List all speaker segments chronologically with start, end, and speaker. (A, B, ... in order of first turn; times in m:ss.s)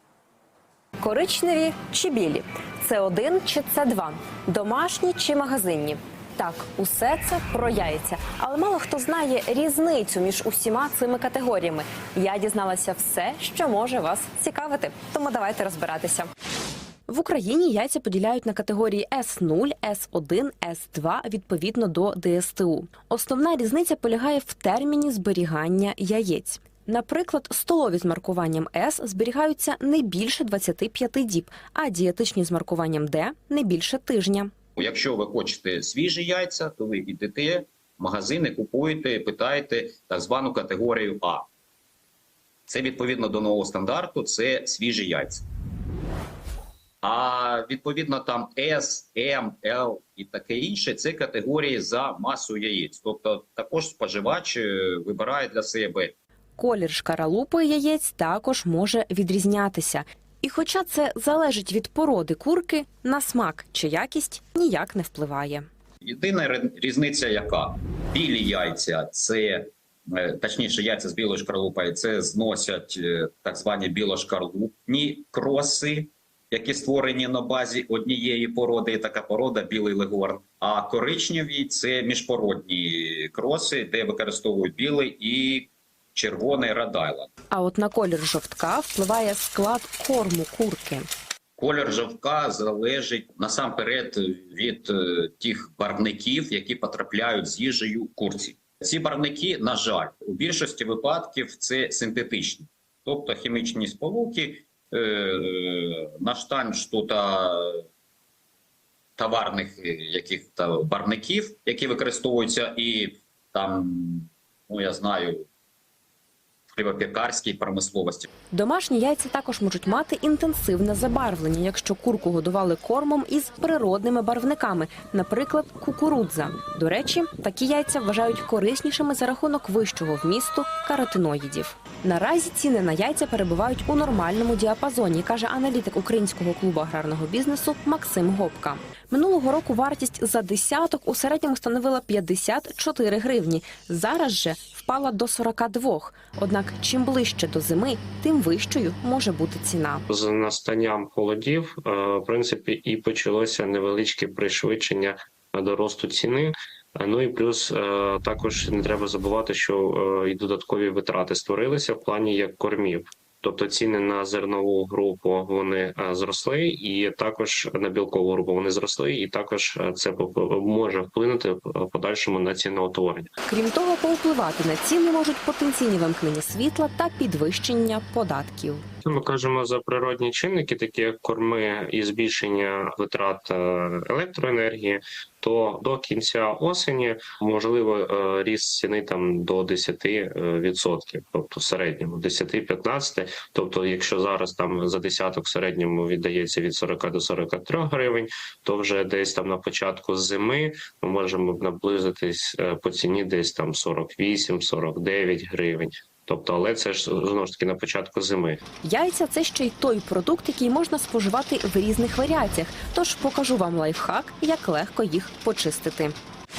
0:01.0-0:16.3 A
0:17.1-0:34.5 A
0:34.8-0:41.5 B
0:42.7-0:45.5 B
0:47.0-0:56.1 B
0:56.6-1:05.7 A
1:06.0-1:27.3 B
1:27.5-1:31.1 A
1:31.6-1:47.8 B
1:49.2-1:55.5 B
1:56.7-1:58.3 B
1:58.5-2:30.1 A
2:30.1-2:53.3 C
2:53.5-2:58.8 A
2:59.0-3:28.6 C
3:28.8-3:36.2 A